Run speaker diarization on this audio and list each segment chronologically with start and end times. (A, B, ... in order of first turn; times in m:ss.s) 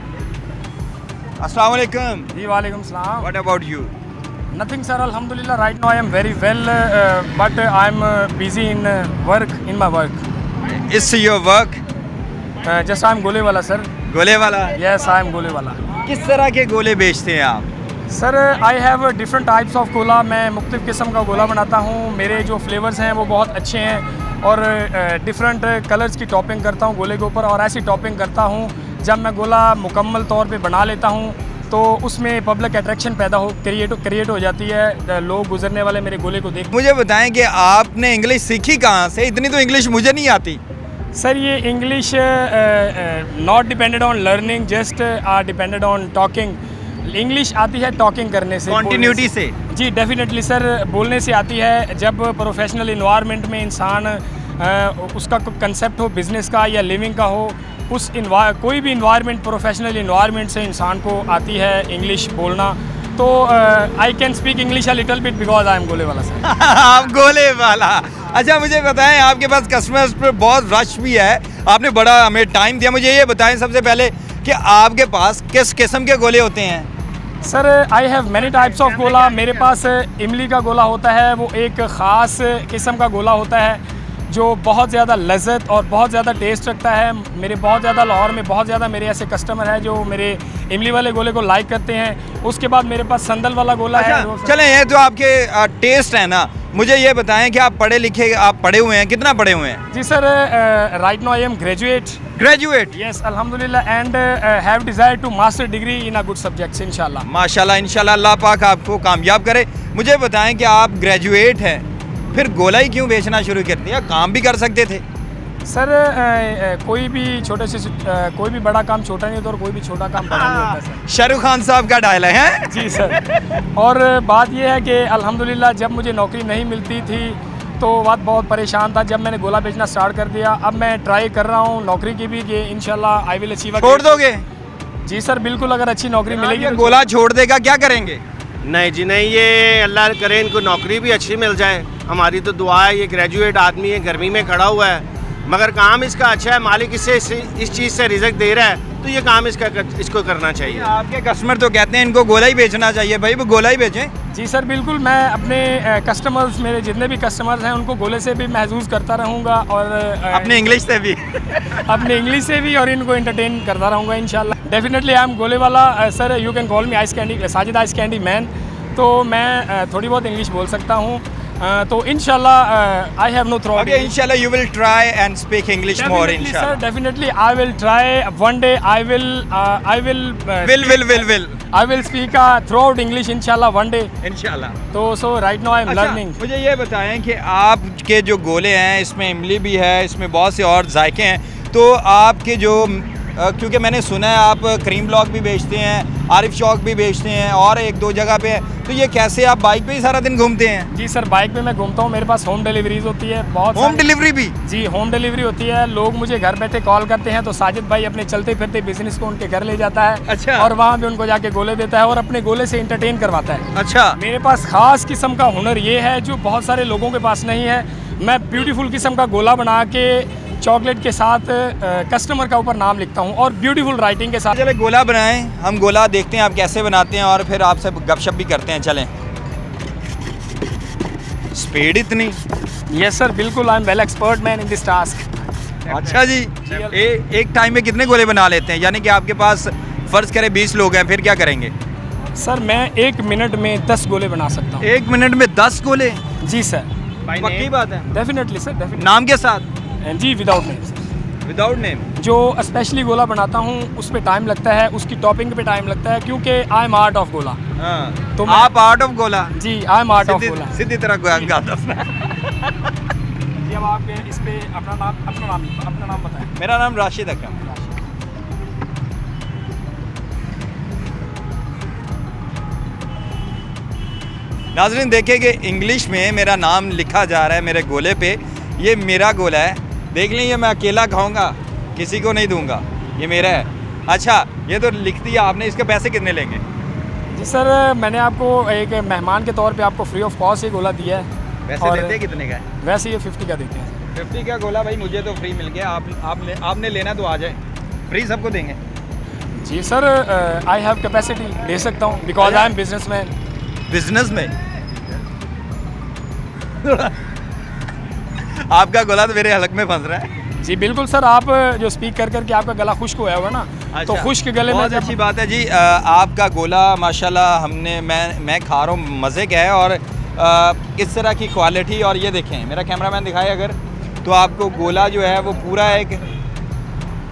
0:01.4-0:02.3 A
0:02.3-0:03.3 B
0:03.2-0:03.9 A
0:04.5-0:10.2 B
0:10.6-0:11.8 A
0:12.6-0:13.9 B
0:14.1-0:14.8 A
0:14.7-0:15.8 B
0:16.0-0:17.7 A
0:18.1-0:36.7 B
0:36.7-0:40.6 A
0:41.1-1:06.4 B
0:48.7-0:49.5 A
1:06.4-1:16.9 A
1:17.4-1:34.5 B
1:18.7-1:19.5 C
1:33.9-1:39.8 A
1:39.9-1:42.2 B
1:42.4-1:42.9 A
1:42.9-1:47.2 B
1:47.2-1:55.0 A
1:55.6-2:01.0 B
2:01.1-2:03.4 A
2:02.7-2:03.2 B
2:03.7-2:14.2 B
2:13.8-2:14.4 A
2:15.0-2:17.0 B
2:16.3-2:18.2 A
2:18.6-2:30.9 C
2:30.6-2:34.1 A
2:34.3-2:40.8 B
2:40.3-2:41.8 A
2:41.7-2:54.1 B
2:53.7-2:56.8 A
2:56.0-3:01.0 B
3:00.6-3:01.6 A
3:01.7-3:04.1 B
3:04.2-3:04.8 A
3:04.9-3:06.4 B
3:05.9-3:20.9 A
3:20.9-3:24.0 B
3:23.7-3:24.5 A
3:24.6-3:33.6 B
3:30.3-3:30.7 A
3:33.7-3:34.2 A
3:34.2-3:44.5 B
3:44.5-3:49.1 A
3:51.5-3:52.4 A
3:52.9-3:55.3 B
3:55.9-3:56.1 C
3:55.9-4:01.7 A
4:02.4-4:04.8 B
4:04.8-4:06.2 A
4:06.4-4:06.9 B
4:07.3-4:07.7 C
4:07.4-4:08.1 A
4:08.1-4:09.1 B
4:09.0-4:09.6 A
4:10.0-4:11.0 B
4:11.4-4:12.0 A
4:12.2-4:17.6 B
4:17.8-4:19.5 A
4:18.4-4:18.7 B
4:19.5-4:20.8 B
4:20.2-4:22.5 A
4:23.6-4:26.5 B
4:26.6-4:27.6 A
4:34.7-4:46.6 A
4:47.3-4:51.3 B
4:51.7-4:52.6 A
4:51.8-4:52.2 B
4:52.8-4:53.9 B
4:54.1-4:57.6 A
4:58.1-4:58.8 A
4:59.6-5:03.3 B
5:02.4-5:02.7 A
5:03.9-5:04.5 A
5:06.8-5:07.2 A
5:08.4-5:10.3 A
5:10.6-5:15.1 B
5:13.9-5:26.2 A